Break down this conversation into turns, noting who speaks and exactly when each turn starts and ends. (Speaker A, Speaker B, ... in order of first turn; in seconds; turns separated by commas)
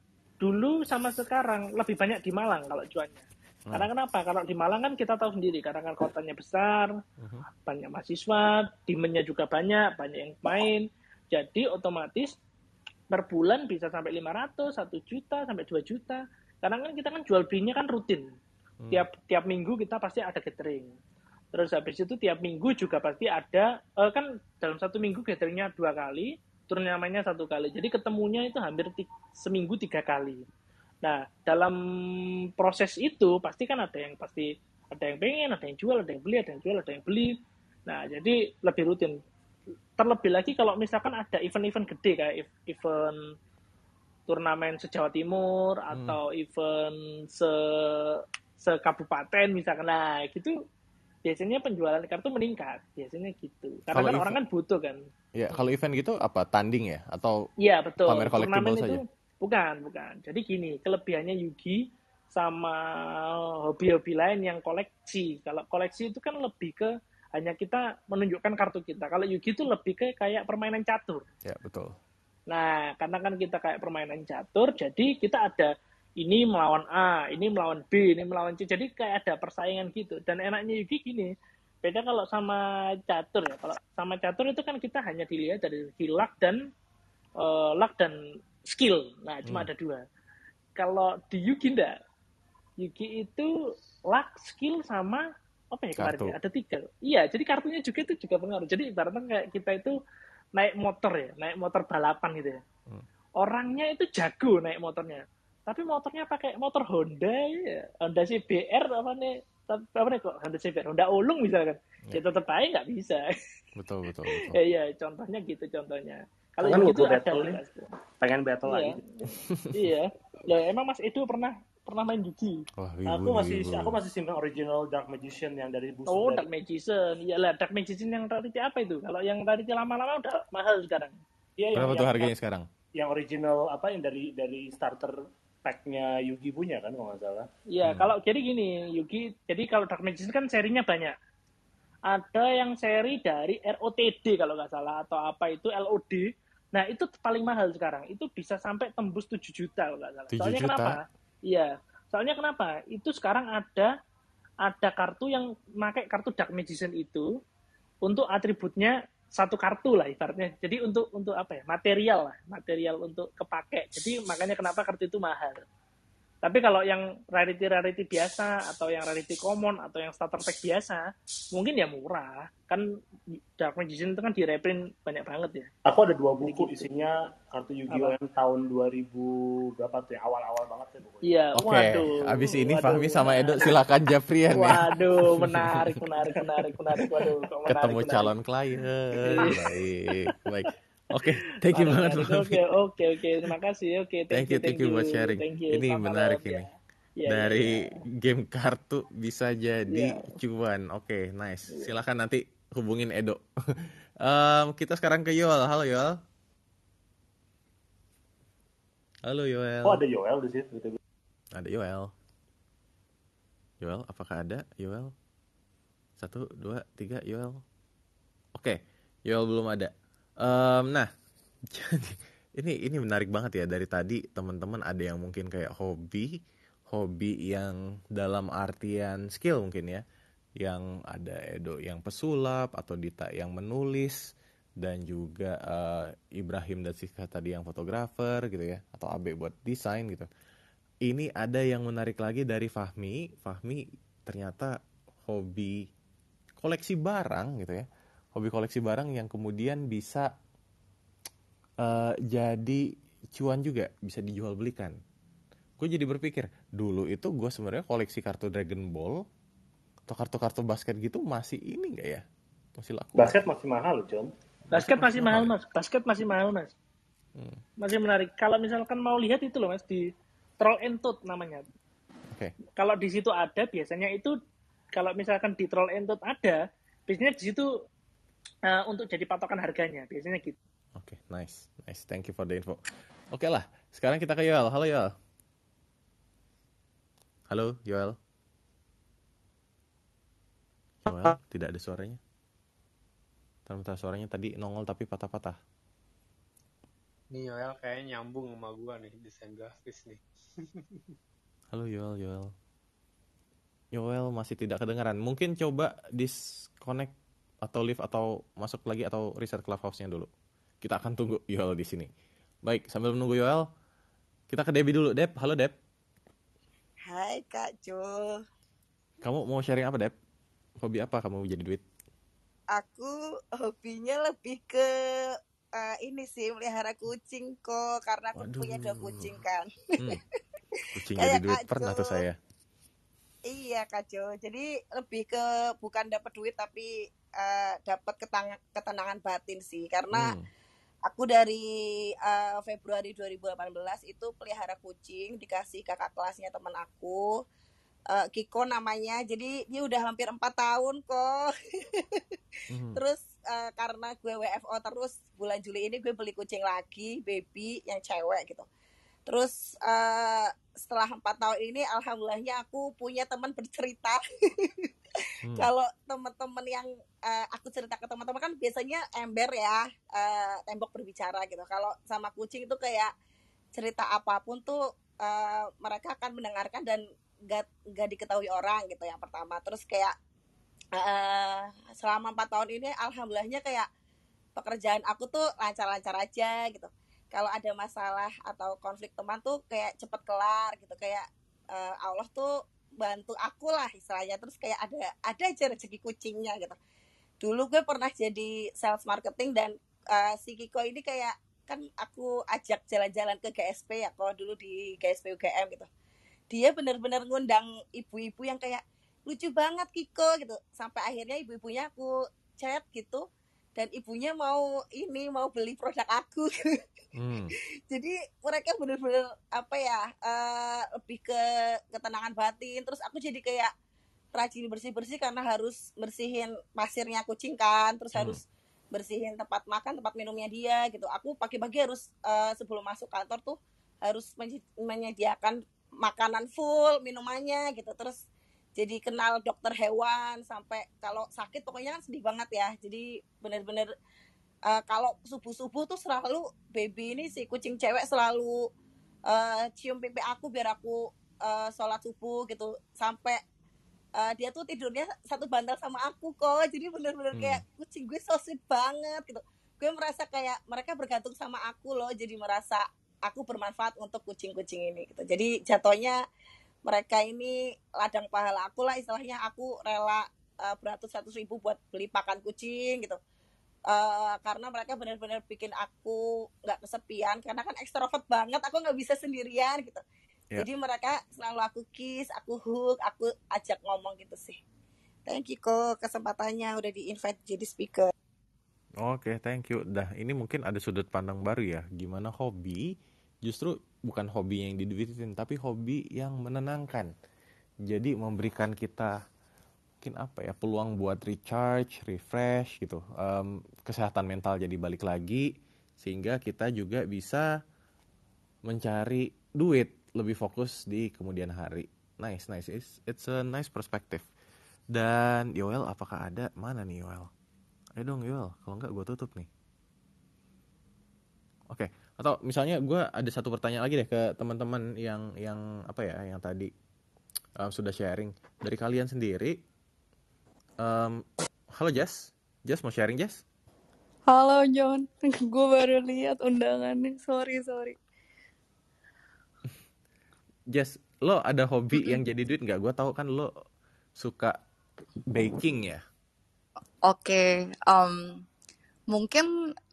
Speaker A: 0.4-6.9, Speaker B: 7.2-7.4, Speaker A: 7.7-12.3, Speaker A: 13.1-18.2, Speaker A: 18.9-20.9, Speaker A: 21.5-30.4, Speaker A: 31.0-37.4, Speaker A: 37.9-39.2, Speaker A: 40.0-43.2, Speaker A: 44.3-50.5, Speaker A: 51.2-55.0, Speaker B: 53.9-54.3, Speaker B: 55.3-57.5, Speaker A: 57.6-71.2, Speaker B: 58.0-59.0, Speaker B: 71.4-71.9, Speaker A: 72.5-81.3, Speaker A: 81.8-86.6, Speaker A: 87.4-90.0, Speaker A: 90.8-92.0, Speaker A: 92.8-93.5, Speaker A: 94.1-100.0, Speaker B: 96.0-96.4, Speaker A: 100.5-102.6, Speaker A: 103.4-113.2, Speaker B: 113.8-114.6, Speaker A: 114.3-117.8, Speaker C: 116.6-117.6, Speaker C: 118.2-119.0, Speaker A: 118.7-122.6, Speaker B: 119.5-119.9, Speaker B: 122.8-124.0, Speaker C: 123.1-126.5, Speaker A: 126.0-131.2, Speaker C: 131.6-132.3, Speaker B: 131.7-132.7, Speaker C: 133.0-135.1, Speaker C: 135.6-137.5, Speaker A: 137.7-141.2, Speaker A: 142.1-153.9, Speaker B: 150.3-150.9, Speaker A: 154.6-157.3, Speaker A: 158.1-165.6, Speaker A: 166.4-172.9, Speaker A: 173.6-175.7, Speaker C: 175.9-182.0, Speaker A: 176.4-176.8, Speaker A: 177.9-178.1, Speaker A: 181.2-183.7, Speaker B: 181.6-185.9, Speaker A: 184.6-188.3, Speaker B: 187.7-192.6, Speaker A: 189.3-189.6, Speaker A: 191.2-196.7, Speaker B: 194.3-196.7, Speaker A: 197.2-197.9, Speaker B: 197.3-206.2, Speaker A: 199.9-200.3, Speaker B: 209.2-210.0, Speaker C: 209.8-211.0, Speaker B: 211.5-212.1, Speaker B: 213.8-215.1, Speaker B: 216.2-217.6, Speaker B: 218.6-221.1, Speaker B: 221.7-226.3, Speaker B: 226.9-230.0, Speaker B: 230.6-234.2, Speaker B: 234.8-240.3, Speaker B: 241.1-244.7, Speaker B: 245.2-245.8, Speaker B: 246.6-250.3, Speaker B: 251.8-255.0, Speaker B: 255.8-259.2, Speaker B: 260.1-262.2, Speaker B: 262.8-263.4, Speaker C: 263.1-264.3, Speaker A: 264.7-266.7, Speaker B: 264.7-265.5, Speaker A: 267.8-270.1, Speaker A: 270.6-271.6, Speaker A: 272.8-274.3, Speaker A: 274.9-277.7, Speaker A: 278.7-280.6, Speaker B: 280.9-282.8, Speaker B: 283.3-285.1, Speaker B: 287.5-288.2, Speaker B: 291.1-292.2, Speaker B: 293.7-295.6, Speaker D: 297.3-300.2, Speaker B: 301.7-302.5, Speaker B: 303.9-307.1, Speaker B: 307.6-310.3, Speaker B: 310.8-312.1, Speaker B: 312.6-313.6, Speaker B: 314.5-315.8, Speaker E: 317.1-318.4, Speaker B: 319.2-320.1, Speaker B: 320.8-321.8, Speaker E: 322.7-330.2, Speaker B: 328.4-329.4, Speaker B: 330.9-332.4, Speaker E: 331.1-332.2, Speaker E: 333.5-340.3, Speaker B: 340.1-340.4, Speaker E: 341.1-341.7, Speaker E: 342.2-347.2, Speaker E: 348.1-352.2, Speaker B: 352.7-353.0, Speaker E: 352.9-358.7, Speaker E: 359.3-364.9, Speaker E: 365.6-373.1, Speaker E: 373.8-380.1, Speaker E: 381.0-383.9, Speaker E: 384.6-396.8, Speaker E: 397.4-405.9, Speaker E: 406.5-413.2, Speaker E: 413.8-416.8, Speaker B: 417.1-417.5, Speaker E: 417.9-421.4, Speaker E: 421.9-423.7, Speaker E: 424.3-428.4, Speaker E: 428.9-438.2, Speaker E: 438.8-443.9, Speaker E: 444.7-448.6, Speaker E: 449.3-453.4, Speaker E: 454.2-466.2, Speaker B: 457.3-457.6, Speaker E: 466.9-473.2, Speaker E: 473.9-480.0, Speaker E: 480.6-484.6, Speaker E: 485.3-488.1, Speaker B: 489.0-492.9, Speaker B: 493.4-497.1, Speaker B: 497.9-499.1, Speaker B: 500.0-505.5, Speaker B: 506.0-507.5, Speaker B: 508.6-514.3, Speaker B: 514.9-517.3, Speaker B: 518.0-519.5, Speaker B: 521.7-526.7, Speaker B: 527.6-529.6, Speaker B: 530.8-533.4, Speaker F: 534.3-538.0, Speaker B: 540.7-543.5, Speaker B: 544.2-544.6, Speaker B: 545.3-546.0, Speaker F: 547.0-548.4, Speaker F: 549.1-549.5